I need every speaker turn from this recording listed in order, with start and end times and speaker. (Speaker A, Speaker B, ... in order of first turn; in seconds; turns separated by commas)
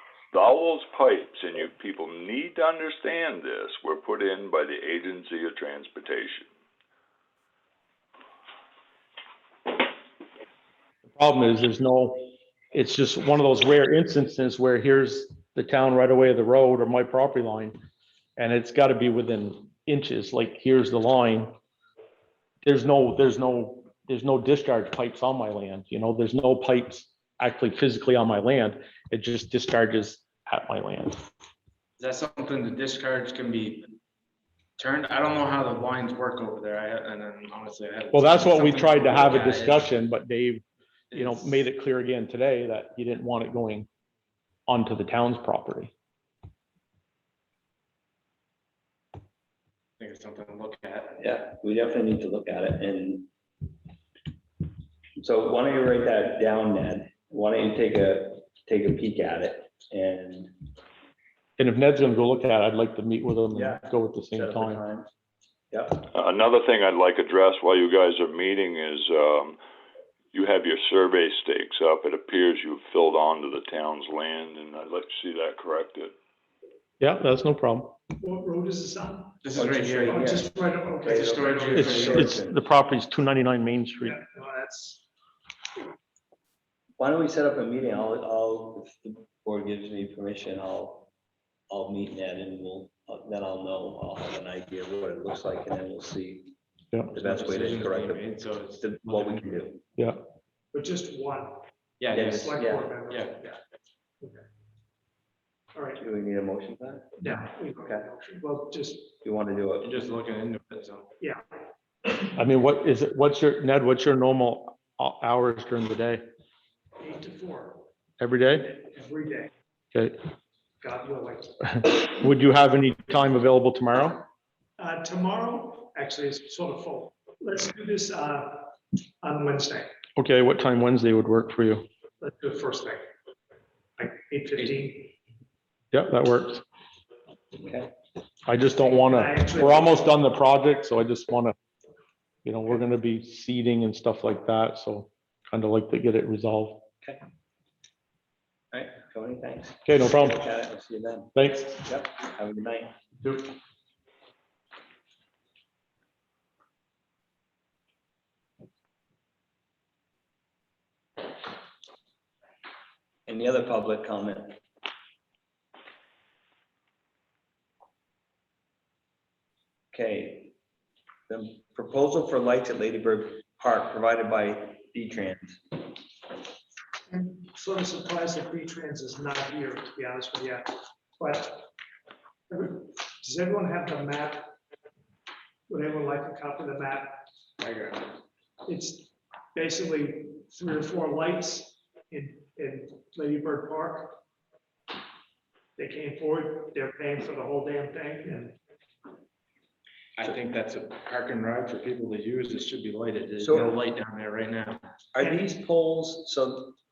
Speaker A: 0.3-6.5, Speaker B: 11.1-17.8, Speaker B: 18.4-21.6, Speaker B: 22.6-31.2, Speaker C: 32.0-33.9, Speaker C: 34.8-39.9, Speaker B: 38.1-43.9, Speaker C: 41.1-41.6, Speaker B: 44.7-45.9, Speaker C: 50.0-51.2, Speaker D: 51.2-53.3, Speaker D: 55.2-60.5, Speaker B: 61.6-64.8, Speaker D: 63.5-65.1, Speaker D: 65.7-66.1, Speaker A: 66.1-69.6, Speaker A: 70.3-76.1, Speaker B: 77.0-78.0, Speaker E: 78.2-82.3, Speaker C: 79.4-80.3, Speaker D: 79.5-80.5, Speaker D: 81.0-82.6, Speaker C: 81.1-82.3, Speaker B: 81.7-84.2, Speaker E: 84.0-85.0, Speaker D: 87.0-91.1, Speaker D: 91.7-96.5, Speaker D: 97.1-99.8, Speaker C: 97.2-99.7, Speaker B: 100.0-100.2, Speaker E: 100.7-103.6, Speaker C: 102.0-103.5, Speaker D: 102.1-102.9, Speaker E: 105.7-106.0, Speaker D: 106.0-107.2, Speaker E: 107.2-109.1, Speaker D: 109.2-109.9, Speaker C: 109.8-111.1, Speaker B: 112.2-116.2, Speaker E: 117.0-117.9, Speaker B: 118.2-118.8, Speaker E: 118.6-119.5, Speaker E: 120.8-121.6, Speaker B: 121.6-124.2, Speaker E: 124.8-129.9, Speaker B: 130.2-131.8, Speaker E: 132.2-133.0, Speaker E: 134.0-135.1, Speaker B: 135.9-136.6, Speaker D: 137.6-137.9, Speaker B: 138.5-141.5, Speaker E: 138.8-140.2, Speaker B: 142.4-146.9, Speaker D: 148.7-152.9, Speaker B: 149.8-150.4, Speaker B: 151.3-151.8, Speaker D: 163.3-164.6, Speaker D: 169.9-170.5, Speaker D: 171.3-175.6, Speaker E: 177.1-181.7, Speaker E: 182.5-184.5, Speaker E: 185.7-187.2, Speaker C: 187.6-188.2, Speaker E: 188.6-194.2, Speaker E: 195.8-198.6, Speaker C: 200.2-204.8, Speaker D: 203.4-203.7, Speaker D: 205.1-206.8, Speaker E: 205.2-205.5